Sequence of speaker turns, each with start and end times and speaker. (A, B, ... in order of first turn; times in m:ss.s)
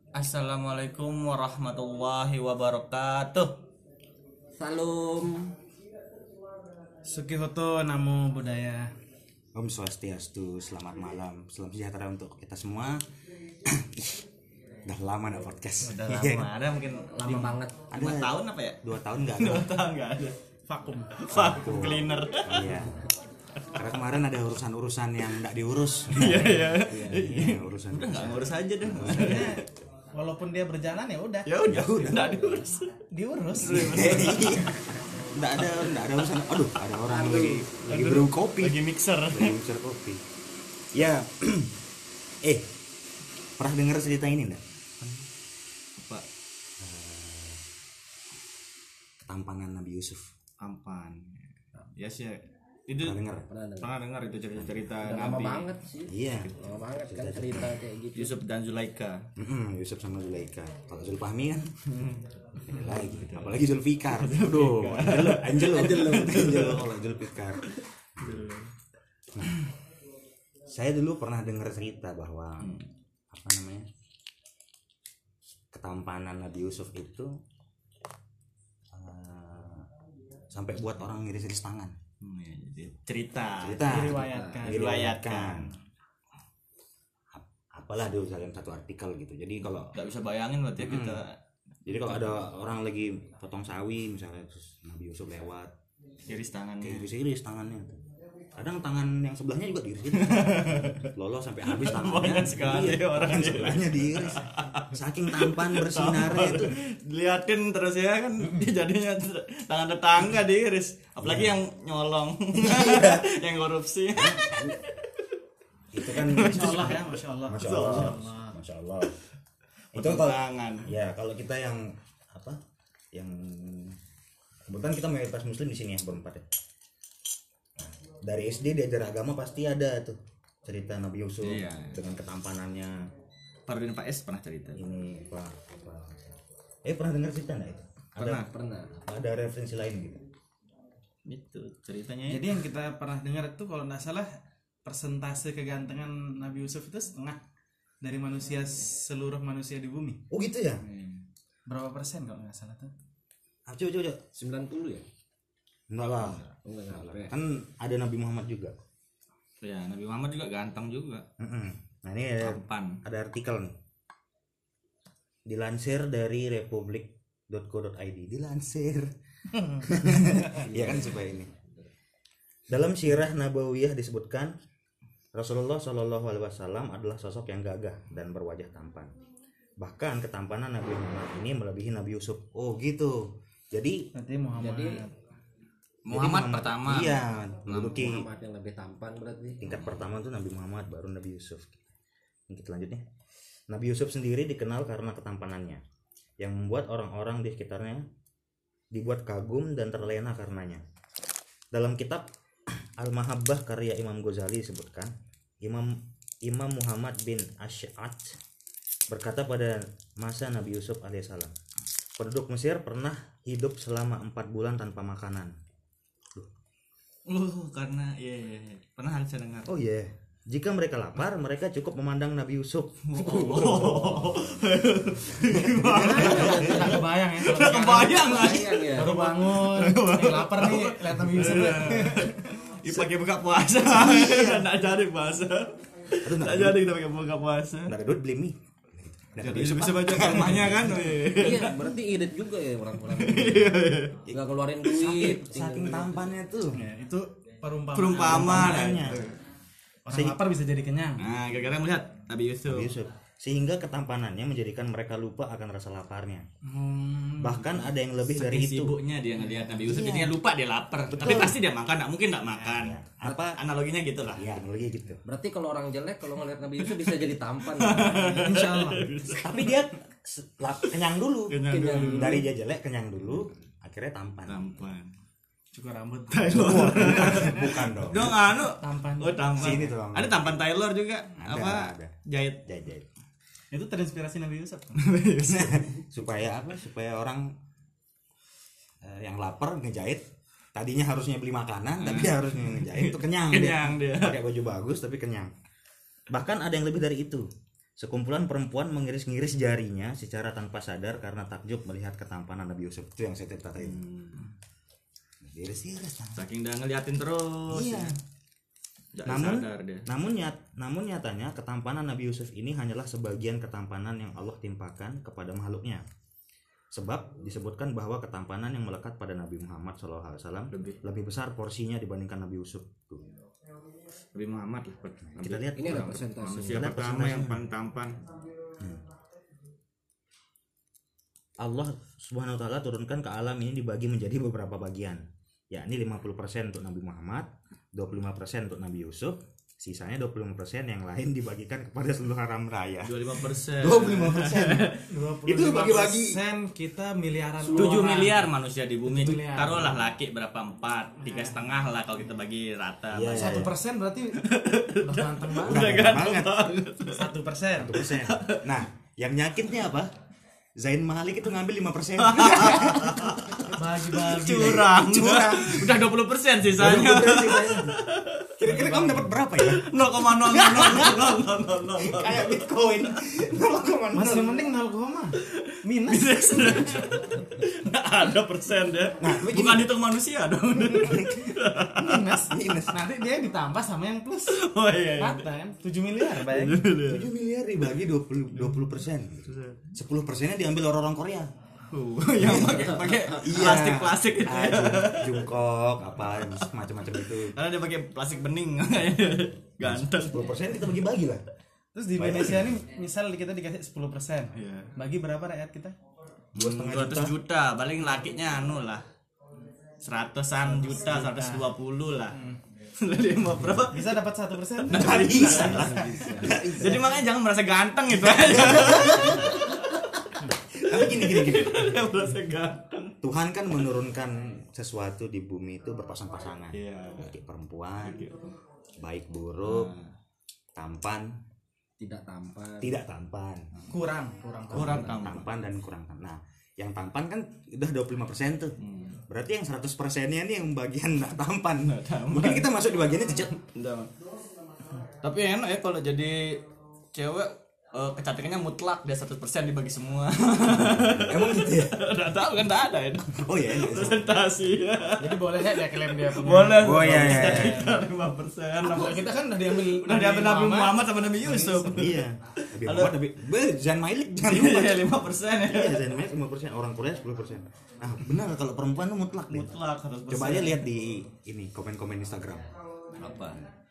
0:00.2-0:03.6 A
0:04.6-0:05.5 B
0:07.0-0:08.9 C
0:09.6-0:13.0 D
0:13.6-0:14.2 D
0:14.9-0:16.5 D
0:15.8-0:20.4 A
0:17.1-0:17.9 B
0:17.9-0:19.7 D
0:20.7-0:21.1 C
0:21.2-0:22.9 A
0:21.3-0:23.0 D
0:23.6-0:23.9 A
0:23.7-0:29.6 D
0:26.1-0:29.6 A
0:26.9-0:27.2 B
0:29.0-0:31.5 C
0:31.5-0:32.9 A
0:31.6-0:32.7 D
0:33.1-0:34.5 C
0:33.5-0:34.8 A
0:33.7-0:34.8 D
0:35.3-0:40.2 D
0:35.7-0:36.0 A
0:37.1-0:37.7 B
0:37.9-0:39.6 A
0:40.9-0:41.7 D
0:43.6-0:45.2 D
0:46.0-0:46.2 A
0:46.8-0:47.7 D
0:49.3-0:50.3 D
0:50.6-0:53.2 A
0:53.0-0:53.5 D
0:53.5-0:53.9 B
0:53.8-0:55.7 A
0:54.6-0:55.0 D
0:55.0-0:58.3 B
0:56.1-0:57.8 D
0:58.2-0:59.2 A
0:59.4-1:01.7 D
1:01.9-1:03.6 A
1:02.6-1:07.6 D
1:04.1-1:06.9 A
1:06.1-1:06.4 B
1:07.6-1:08.7 A
1:08.2-1:08.5 D
1:10.7-1:12.7 D
1:12.6-1:12.9 A
1:13.3-1:13.9 D
1:15.7-1:17.4 D
1:18.9-1:19.9 D
1:20.5-1:22.0 D
1:22.2-1:25.8 A
1:23.6-1:25.7 D
1:23.8-1:25.0 C
1:24.2-1:24.6 B
1:27.3-1:29.9 D
1:29.8-1:31.4 A
1:30.8-1:31.2 D
1:31.9-1:35.7 D
1:31.9-1:32.4 A
1:36.3-1:37.1 A
1:36.8-1:38.0 D
1:38.6-1:46.8 D
1:40.1-1:41.1 A
1:41.7-1:55.1 A
1:51.2-1:51.6 D
1:52.5-1:53.3 D
1:54.2-1:54.8 D
1:55.9-1:59.2 D
1:56.1-1:57.0 A
1:56.4-1:58.6 C
1:57.5-1:58.1 A
1:59.9-2:00.9 A
1:59.9-2:02.6 D
2:03.1-2:04.0 D
2:04.7-2:06.4 D
2:07.8-2:13.1 D
2:11.4-2:12.0 A
2:13.7-2:14.8 A
2:14.8-2:18.5 D
2:18.2-2:18.5 A
2:18.3-2:19.1 B
2:19.0-2:20.3 D
2:21.3-2:22.6 A
2:22.3-2:24.3 C
2:24.8-2:27.4 C
2:28.0-2:30.2 C
2:30.3-2:30.9 D
2:30.8-2:31.2 A
2:31.7-2:32.9 C
2:33.7-2:34.2 D
2:34.4-2:35.1 B
2:35.9-2:38.8 D
2:36.2-2:37.3 B
2:39.6-2:41.3 A
2:41.4-2:43.8 D
2:42.4-2:43.0 A
2:45.5-2:49.1 D
2:49.5-2:50.5 C
2:49.8-2:51.5 D
2:50.6-2:51.5 B
2:52.7-2:54.5 D
2:55.3-2:59.1 D
2:59.8-3:04.1 D
3:04.1-3:05.1 C
3:04.6-3:05.0 B
3:06.1-3:07.3 A
3:06.1-3:08.3 D
3:07.7-3:09.9 B
3:09.6-3:11.8 D
3:12.5-3:13.0 D
3:13.7-3:15.8 D
3:16.4-3:18.1 D
3:18.9-3:20.8 D
3:21.7-3:28.4 D
3:29.1-3:31.6 D
3:32.2-3:35.6 D
3:37.3-3:39.7 A
3:39.7-3:44.6 D
3:43.1-3:57.9 A
3:45.4-3:47.0 D
3:45.9-3:47.0 B
3:45.9-3:52.4 C
3:47.9-3:49.2 B
3:53.8-3:54.7 D
3:56.2-3:56.8 D
3:57.9-4:01.1 D
3:59.4-4:01.9 A
4:01.3-4:06.2 B
4:03.1-4:04.2 A
4:04.8-4:05.3 A
4:04.9-4:06.8 D
4:06.7-4:09.0 C
4:07.9-4:09.4 A
4:08.2-4:09.3 D
4:10.1-4:11.2 C
4:10.1-4:10.4 D
4:11.2-4:12.9 A
4:12.7-4:16.5 D
4:16.6-4:17.9 C
4:17.4-4:19.0 D
4:18.3-4:23.0 A
4:19.4-4:20.1 C
4:19.9-4:20.3 B
4:21.1-4:21.6 D
4:22.6-4:23.6 D
4:23.5-4:24.5 A
4:24.3-4:25.2 D
4:25.2-4:28.6 B
4:26.8-4:29.8 A
4:28.4-4:29.1 C
4:29.4-4:34.8 D
4:31.5-4:32.4 A
4:31.6-4:32.5 B
4:34.5-4:35.1 A
4:35.7-4:37.8 C
4:36.3-4:42.6 A
4:36.5-4:38.4 D
4:38.6-4:39.9 C
4:39.6-4:40.6 D
4:41.4-4:43.1 D
4:43.7-4:45.2 C
4:45.0-4:45.9 A
4:45.4-4:47.5 D
4:49.0-4:50.2 D
4:50.8-4:55.5 D
4:52.0-4:54.4 A
4:56.3-5:04.0 D
5:03.8-5:04.5 A
5:05.4-5:06.5 D
5:06.4-5:08.2 A
5:07.7-5:08.2 D
5:09.2-5:10.1 A
5:09.2-5:16.0 D
5:16.9-5:23.2 D
5:20.7-5:21.0 A
5:24.3-5:28.2 A
5:25.4-5:27.6 D
5:25.8-5:26.9 B
5:31.6-5:46.4 D
5:43.0-5:45.1 A
5:45.1-5:48.5 C
5:47.6-5:48.1 D
5:47.7-5:53.7 A
5:49.0-5:50.1 C
5:51.2-5:51.6 C
5:53.1-5:53.7 D
5:53.4-5:54.4 C
5:54.4-5:57.3 A
5:55.0-5:56.1 C
5:55.6-5:56.6 D
5:57.0-5:58.0 C
5:57.8-6:00.1 D
5:58.0-5:58.7 A
6:00.8-6:03.6 D
6:02.2-6:08.5 A
6:03.7-6:05.0 C
6:04.9-6:06.0 D
6:06.7-6:08.0 D
6:08.6-6:14.6 D
6:08.6-6:09.3 C
6:09.6-6:12.7 A
6:14.1-6:17.0 C
6:15.4-6:22.4 A
6:19.2-6:19.9 D
6:20.9-6:21.5 D
6:22.0-6:24.6 C
6:22.5-6:23.0 D
6:24.5-6:25.5 A
6:25.2-6:26.9 C
6:26.2-6:27.3 A
6:27.0-6:31.5 D
6:29.5-6:29.9 A
6:31.9-6:35.5 A
6:32.4-6:37.6 D
6:36.2-6:40.5 A
6:39.8-6:41.4 D
6:41.9-6:46.0 C
6:42.2-6:42.8 D
6:44.6-6:44.9 A
6:46.6-6:47.4 D
6:46.6-6:49.0 A
6:50.0-6:52.4 A
6:50.6-6:51.7 C
6:52.3-6:52.6 C
6:53.0-6:54.2 A
6:53.9-6:57.0 C
6:54.8-7:03.2 A
6:54.9-6:57.2 D
6:58.1-6:59.6 D
7:00.7-7:02.0 D
7:03.2-7:08.3 D
7:06.7-7:07.4 A
7:08.0-7:08.5 A
7:09.0-7:09.9 D
7:09.6-7:10.1 A
7:10.8-7:11.3 D
7:12.0-7:13.0 B
7:12.8-7:13.7 D
7:13.9-7:15.2 C
7:14.7-7:18.8 D
7:14.7-7:15.5 A
7:18.8-7:19.2 A
7:19.3-7:23.6 D
7:21.8-7:22.7 A
7:23.6-7:24.1 A
7:25.2-7:26.6 A
7:27.1-7:43.2 A
7:30.7-7:32.0 D
7:33.3-7:34.4 D
7:35.2-7:38.0 C
7:36.8-7:37.8 D
7:38.8-7:42.2 C
7:41.9-7:45.1 D
7:44.5-7:46.1 A
7:45.7-7:49.8 D
7:49.5-7:50.8 A
7:50.3-7:52.7 D
7:53.2-7:53.6 A